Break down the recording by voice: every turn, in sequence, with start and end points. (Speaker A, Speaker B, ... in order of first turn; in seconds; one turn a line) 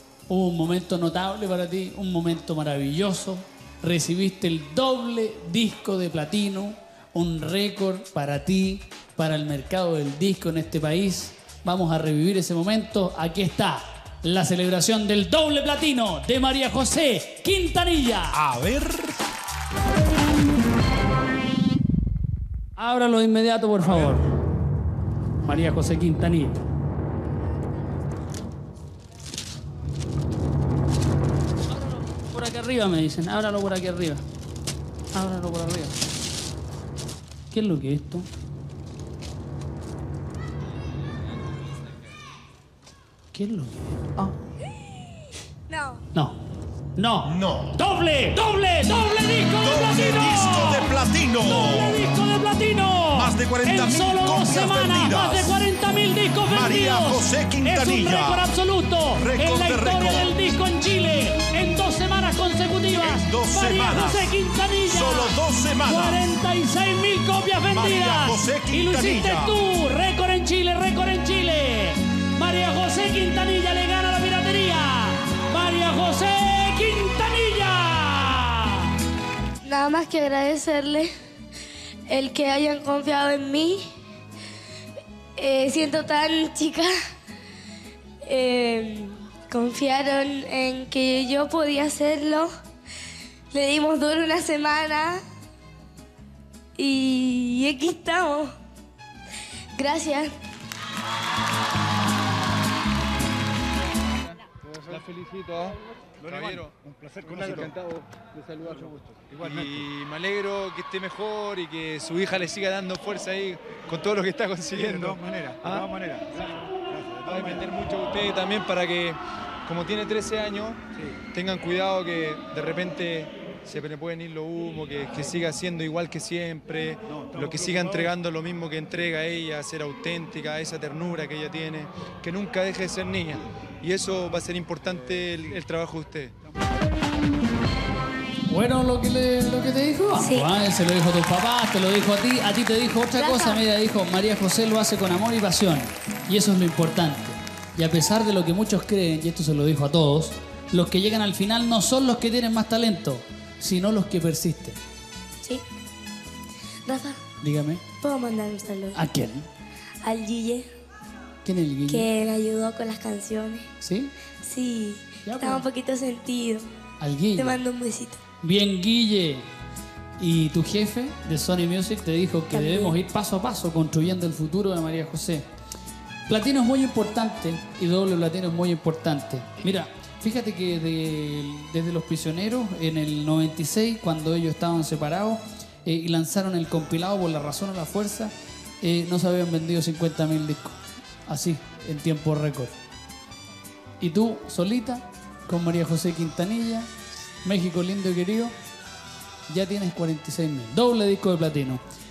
Speaker A: 0.3-18.4
Speaker B: 18.3-19.2
Speaker A: 22.8-24.2
Speaker A: 25.4-26.6
Speaker A: 31.7-34.2
Speaker A: 35.1-35.9
Speaker A: 37.5-38.3
Speaker A: 43.3-44.3
Speaker C: 45.7-46.0
Speaker A: 47.0-78.8
Speaker B: 47.3-47.8
Speaker B: 49.6-52.1
Speaker B: 53.1-55.6
Speaker B: 56.5-58.5
Speaker B: 59.1-60.3
Speaker B: 63.0-66.2
Speaker B: 67.7-69.6
Speaker C: 79.6-81.1
Speaker C: 82.1-83.9
Speaker C: 85.3-86.9
Speaker C: 88.2-92.5
Speaker C: 93.5-95.2
Speaker C: 96.8-98.5
Speaker C: 99.8-100.3
Speaker D: 104.9-107.8
Speaker E: 106.2-109.8
Speaker D: 109.3-136.3
Speaker E: 114.8-117.7
Speaker E: 127.1-128.1
Speaker A: 138.5-154.8
Speaker C: 140.2-140.5
Speaker C: 143.2-143.7
Speaker C: 156.8-157.2
Speaker A: 157.4-157.8
Speaker C: 158.0-159.0
Speaker A: 158.9-159.5
Speaker C: 160.0-160.7
Speaker A: 161.4-162.1
Speaker C: 161.9-163.7
Speaker A: 163.8-164.1
Speaker C: 164.4-166.7
Speaker A: 165.2-165.7
Speaker A: 167.0-167.6
Speaker C: 167.3-168.2
Speaker A: 168.4-169.5
Speaker A: 170.2-175.4
Speaker C: 172.5-173.0
Speaker A: 176.3-192.7
Speaker A: 194.0-196.9
Speaker A: 197.4-198.5
Speaker A: 199.5-201.8